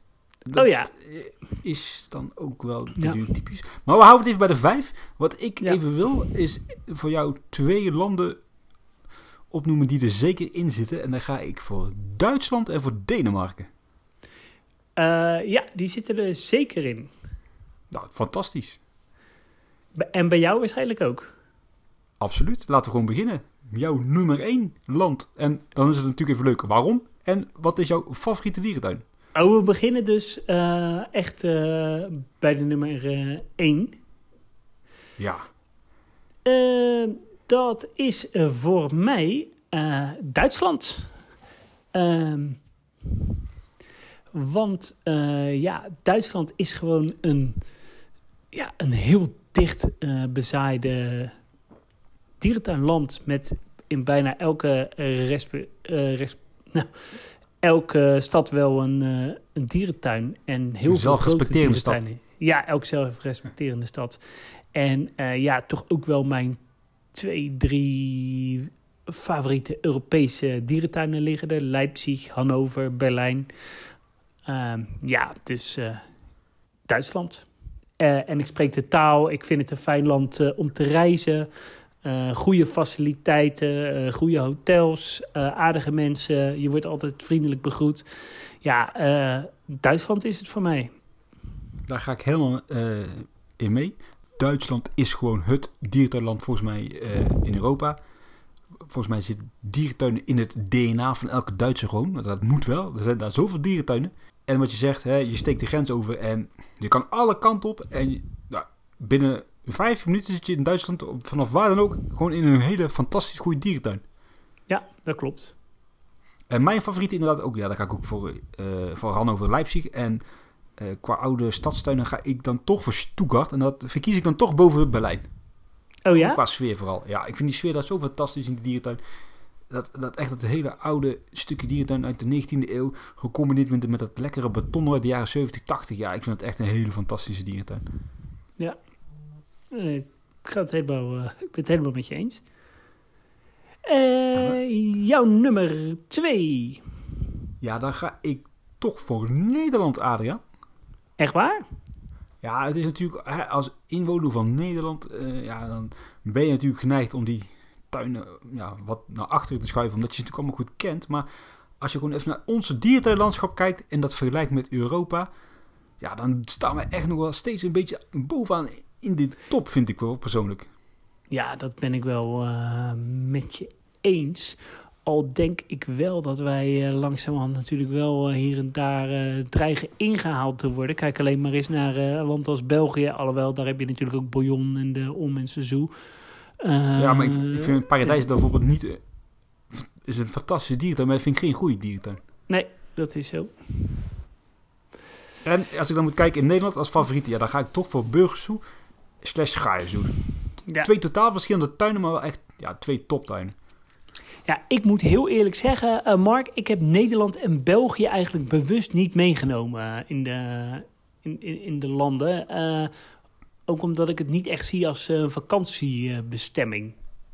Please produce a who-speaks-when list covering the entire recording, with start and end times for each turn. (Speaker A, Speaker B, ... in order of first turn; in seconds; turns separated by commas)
Speaker A: 0.4-8.4, Speaker B: 0.5-0.9, Speaker A: 9.5-13.7, Speaker B: 15.0-17.1, Speaker A: 17.9-18.8, Speaker B: 19.9-21.3, Speaker A: 22.2-29.0, Speaker B: 29.3-34.0, Speaker A: 35.2-35.5, Speaker B: 36.5-41.1, Speaker B: 41.9-42.6, Speaker B: 44.3-47.6, Speaker B: 48.5-51.3, Speaker B: 52.4-64.2, Speaker A: 60.9-62.0, Speaker B: 64.7-66.6, Speaker B: 67.1-73.5, Speaker B: 74.5-76.0, Speaker B: 76.9-77.5, Speaker B: 78.0-81.5, Speaker B: 82.0-90.9, Speaker A: 91.9-98.0, Speaker A: 98.8-114.0, Speaker B: 114.7-115.5, Speaker A: 116.5-120.2, Speaker A: 120.8-125.3, Speaker B: 126.0-126.4, Speaker A: 126.1-129.0, Speaker A: 129.7-137.8, Speaker B: 139.7-142.4, Speaker B: 143.8-146.8, Speaker A: 147.6-150.4, Speaker B: 151.2-151.6, Speaker A: 152.4-161.3, Speaker A: 161.8-165.3, Speaker A: 166.0-170.7, Speaker B: 171.3-185.9, Speaker B: 186.6-188.2, Speaker A: 187.0-189.0, Speaker A: 189.7-192.2, Speaker B: 192.5-193.7, Speaker A: 195.4-198.6, Speaker A: 199.2-200.2, Speaker A: 200.8-203.5, Speaker B: 204.4-212.9, Speaker B: 213.7-216.9